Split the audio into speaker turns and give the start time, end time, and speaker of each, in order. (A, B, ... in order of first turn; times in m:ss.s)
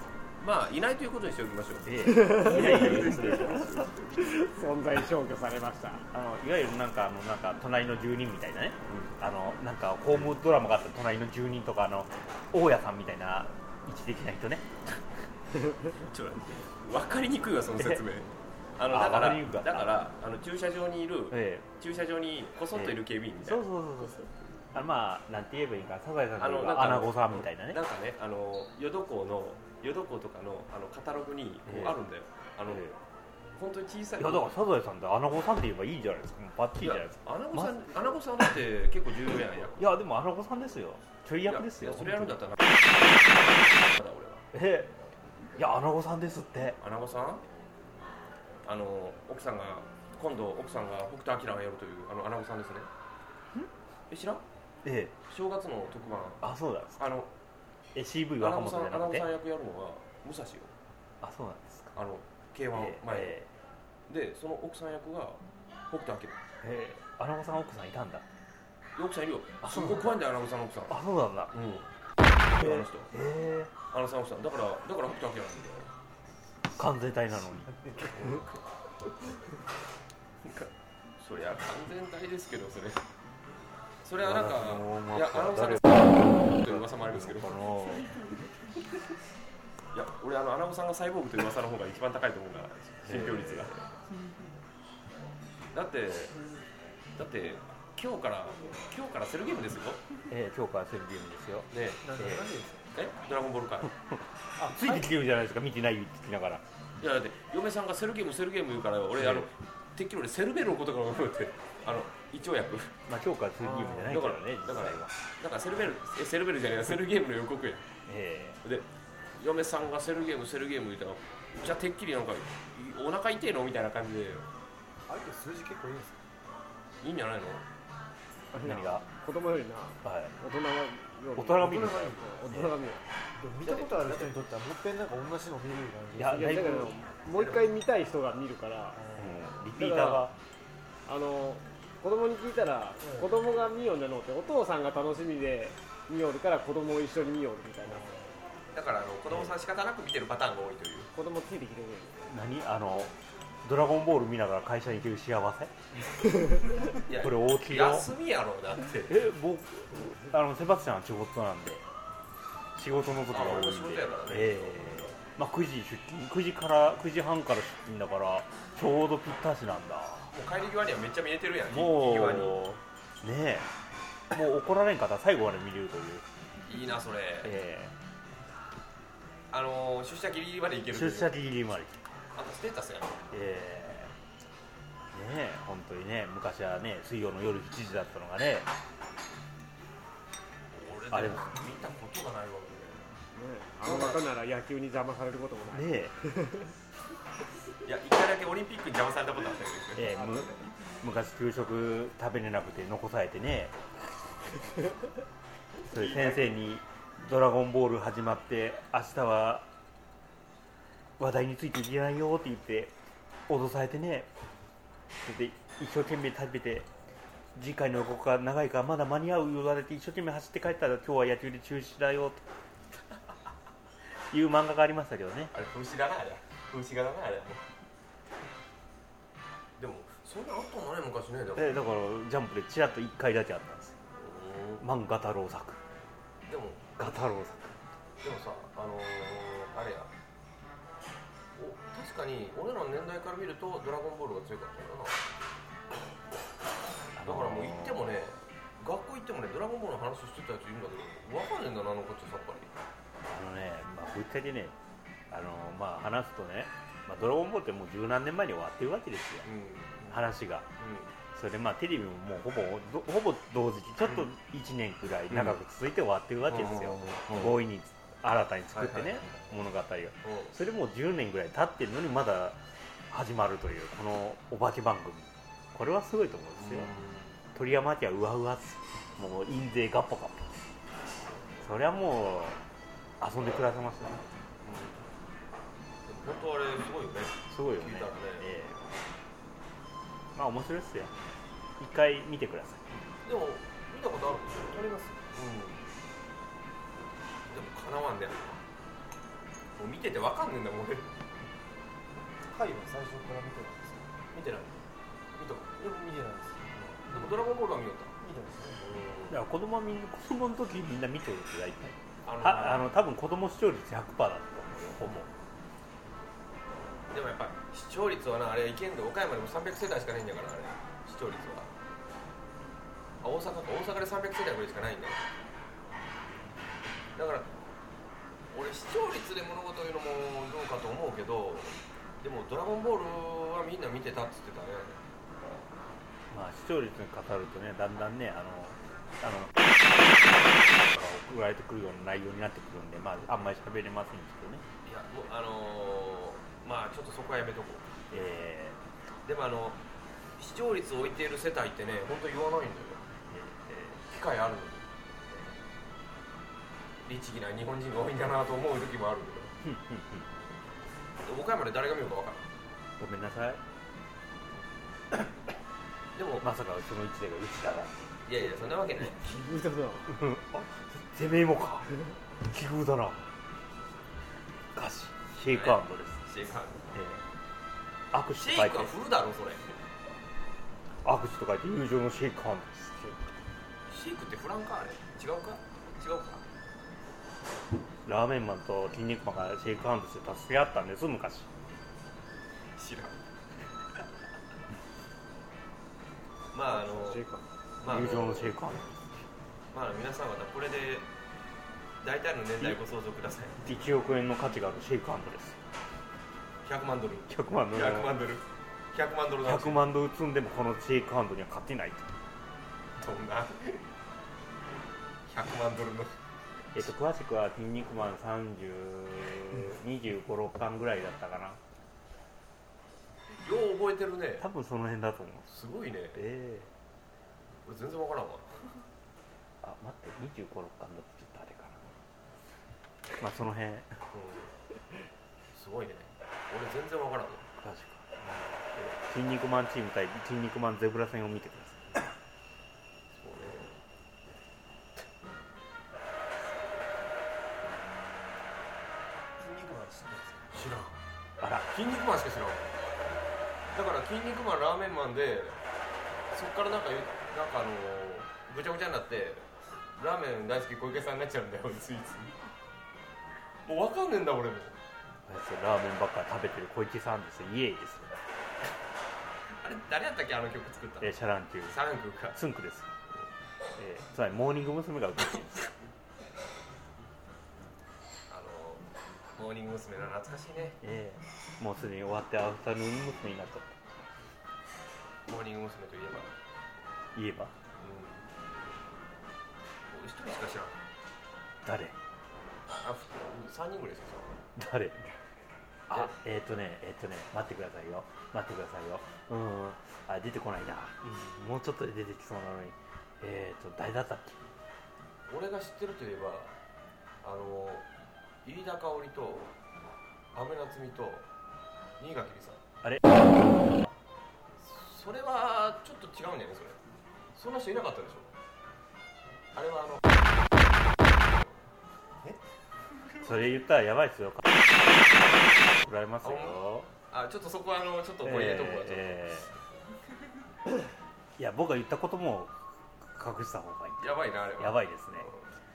0:00.4-0:04.1 A
0:01.8-0:03.7 B
0:02.3-0:06.0 C
0:06.1-0:14.7 B
0:15.9-0:23.6 A
0:18.9-0:19.9 B
0:21.3-0:21.6 B
0:22.8-0:27.8 B
0:26.4-0:32.9 A
0:31.7-0:32.0 B
0:33.6-0:34.6 A
0:34.2-0:37.8 B
0:36.8-0:39.9 A
0:39.8-0:42.4 B
0:41.5-0:42.6 A
0:43.8-0:44.4 A
0:44.5-0:44.9 B
0:45.6-0:46.8 B
0:46.8-0:47.4 A
0:48.6-0:52.9 A
0:54.1-0:54.4 A
0:54.8-0:55.1 B
0:55.3-0:56.4 A
0:56.4-0:57.0 B
0:57.0-0:57.3 A
0:57.9-0:59.3 B
0:58.4-1:00.7 A
1:01.2-1:01.9 B
1:01.9-1:03.4 A
1:02.7-1:03.5 B
1:04.1-1:06.4 A
1:06.6-1:08.2 B
1:09.0-1:11.0 A
1:09.6-1:10.2 B
1:10.9-1:11.5 B
1:11.5-1:11.8 A
1:12.5-1:13.1 A
1:12.5-1:13.7 B
1:13.9-1:15.9 A
1:16.8-1:17.7 B
1:18.0-1:18.6 A
1:20.4-1:23.0 A
1:24.0-1:27.7 A
1:24.2-1:25.9 B
1:26.5-1:28.1 B
1:29.9-1:33.8 A
1:33.0-1:33.7 B
1:35.7-1:36.4 A
1:37.2-1:40.0 A
1:40.3-1:42.5 B
1:41.7-1:42.2 A
1:42.0-1:42.9 D
1:42.9-1:43.9 A
1:44.1-1:46.6 B
1:44.6-1:45.0 D
1:47.0-1:52.9 A
1:49.2-1:49.5 B
1:53.1-1:55.1 B
1:53.8-1:57.9 A
1:58.1-1:58.6 B
1:59.4-2:04.5 A
2:05.1-2:06.2 D
2:07.0-2:07.6 A
2:08.5-2:13.0 C
2:08.6-2:09.0 B
2:10.0-2:10.4 B
2:11.3-2:12.7 B
2:11.6-2:12.3 D
2:13.4-2:16.6 D
2:13.6-2:14.3 A
2:16.2-2:16.9 B
2:16.3-2:19.2 C
2:17.3-2:17.6 A
2:19.0-2:19.4 D
2:19.2-2:20.4 B
2:19.7-2:20.3 C
2:21.0-2:28.2 C
2:23.0-2:23.3 D
2:28.7-2:31.1 A
2:31.1-2:32.2 C
2:32.3-2:35.7 B
2:36.9-2:39.2 A
2:37.2-2:38.1 B
2:39.0-2:41.8 B
2:42.7-2:50.3 B
2:43.3-2:45.1 A
2:50.3-2:52.6 A
2:51.7-2:53.7 B
2:54.3-2:56.2 B
2:56.7-2:57.5 A
2:57.4-2:57.9 B
2:59.5-3:01.4 A
3:00.9-3:02.0 B
3:02.3-3:03.3 A
3:03.3-3:04.1 B
3:05.1-3:08.7 B
3:10.8-3:13.1 A
3:11.1-3:11.6 B
3:13.3-3:16.7 C
3:13.8-3:14.2 A
3:15.7-3:16.1 B
3:17.8-3:20.4 A
3:20.0-3:23.8 B
3:25.9-3:29.7 B
3:25.9-3:26.4 A
3:31.2-3:32.9 B
3:33.5-3:34.3 B
3:35.2-3:36.9 B
3:37.5-3:42.4 B
3:44.3-3:45.5 B
3:45.5-3:47.6 A
3:49.8-3:51.8 A
3:51.6-3:54.0 B
3:54.2-3:54.8 A
3:54.8-3:55.8 B
3:56.5-3:57.0 A
3:57.0-3:57.8 B
3:58.2-4:00.1 A
4:01.6-4:05.2 A
4:07.2-4:08.0 B
4:07.2-4:12.7 A
4:13.2-4:14.7 B
4:15.3-4:19.5 B
4:19.4-4:20.2 A
4:20.1-4:20.7 B
4:20.8-4:21.1 A
4:21.3-4:36.9 B
4:25.3-4:25.6 A
4:26.5-4:27.6 A
4:28.7-4:29.5 A
4:30.2-4:30.5 A
4:36.6-4:37.3 A
4:37.5-4:40.6 B
4:41.6-4:42.6 B
4:43.2-4:44.2 B
4:44.6-4:45.0 A
4:46.0-4:48.5 A
4:47.5-4:48.8 B
4:50.3-4:51.1 B
4:51.8-4:52.8 B
4:53.2-4:55.8 A
4:54.8-4:55.2 D
4:57.5-4:58.6 A
4:59.8-5:01.1 A
5:02.5-5:04.1 D
5:04.3-5:04.8 A
5:05.4-5:05.9 A
5:05.8-5:07.3 D
5:06.9-5:08.1 A
5:08.2-5:09.0 D
5:08.8-5:09.4 A
5:09.3-5:15.3 B
5:12.2-5:12.9 A
5:17.1-5:21.7 A
5:23.2-5:25.3 A
5:27.1-5:27.5 A
5:28.5-5:35.0 A
5:36.3-5:39.5 B
5:40.7-5:44.6 B
5:44.8-5:47.9 A
5:48.1-5:48.8 B
5:49.2-5:49.8 A
5:50.4-5:53.0 A
5:53.3-5:54.1 B
5:54.0-5:55.5 A
5:57.0-5:59.5 A
5:59.6-6:00.3 B
6:01.2-6:02.5 A
6:03.0-6:03.6 B
6:06.1-6:06.4 A
6:06.4-6:08.0 B
6:08.2-6:09.2 A
6:09.0-6:10.1 C
6:10.1-6:13.3 B
6:14.7-6:16.2 B
6:15.5-6:16.8 A
6:16.9-6:17.2 B
6:18.1-6:18.9 B
6:18.3-6:19.7 A
6:21.0-6:23.2 B
6:23.9-6:26.4 A
6:28.0-6:31.5 B
6:32.8-6:33.2 A
6:36.5-6:37.2 A
6:36.7-6:37.4 C
6:37.8-6:38.6 A
6:37.8-6:39.1 B
6:39.7-6:41.1 A
6:42.0-6:43.6 A
6:43.6-6:45.6 B
6:46.6-6:49.9 A
6:47.3-6:48.1 B
6:49.4-6:52.1 B
6:53.0-6:53.8 A
6:55.2-6:56.2 A
6:56.7-7:01.6 B
7:03.4-7:04.5 A
7:04.4-7:05.5 B
7:05.5-7:06.2 A
7:06.1-7:06.7 B
7:07.6-7:08.7 A
7:09.6-7:11.9 B
7:13.2-7:14.0 B
7:14.1-7:14.5 A
7:15.5-7:17.4 A
7:17.6-7:22.0 B
7:23.1-7:23.7 A
7:29.4-7:31.0 A
7:31.4-7:31.7 B
7:31.7-7:32.7 A
7:33.7-7:35.6 A
7:36.3-7:42.4 A
7:43.6-7:44.8 A
7:45.2-7:48.2 B
7:49.6-7:52.4 A
7:51.0-7:51.8 B
7:52.3-7:52.9 B
7:53.8-7:55.7 B
7:58.3-7:58.8 A
7:59.4-8:00.8 A
8:00.8-8:03.8 B
8:05.3-8:06.3 A
8:07.1-8:07.5 B
8:07.8-8:08.3 A
8:09.9-8:10.8 A
8:11.6-8:11.9 B
8:12.7-8:14.3 A
8:14.6-8:15.0 B
8:15.9-8:24.4 B
8:25.3-8:26.5 A
8:27.2-8:27.8 A
8:28.4-8:29.5 A
8:30.3-8:31.2 A
8:32.0-8:32.6 A
8:33.6-8:33.9 B
8:34.6-8:36.8 A
8:37.3-8:38.3 A
8:39.5-8:40.0 A
8:41.2-8:41.6 A
8:43.1-8:43.4 A
8:43.2-8:44.6 B
8:45.7-8:46.9 B
8:46.2-8:49.6 A
8:48.2-8:49.5 B
8:51.4-8:55.3 B
8:54.0-8:55.5 A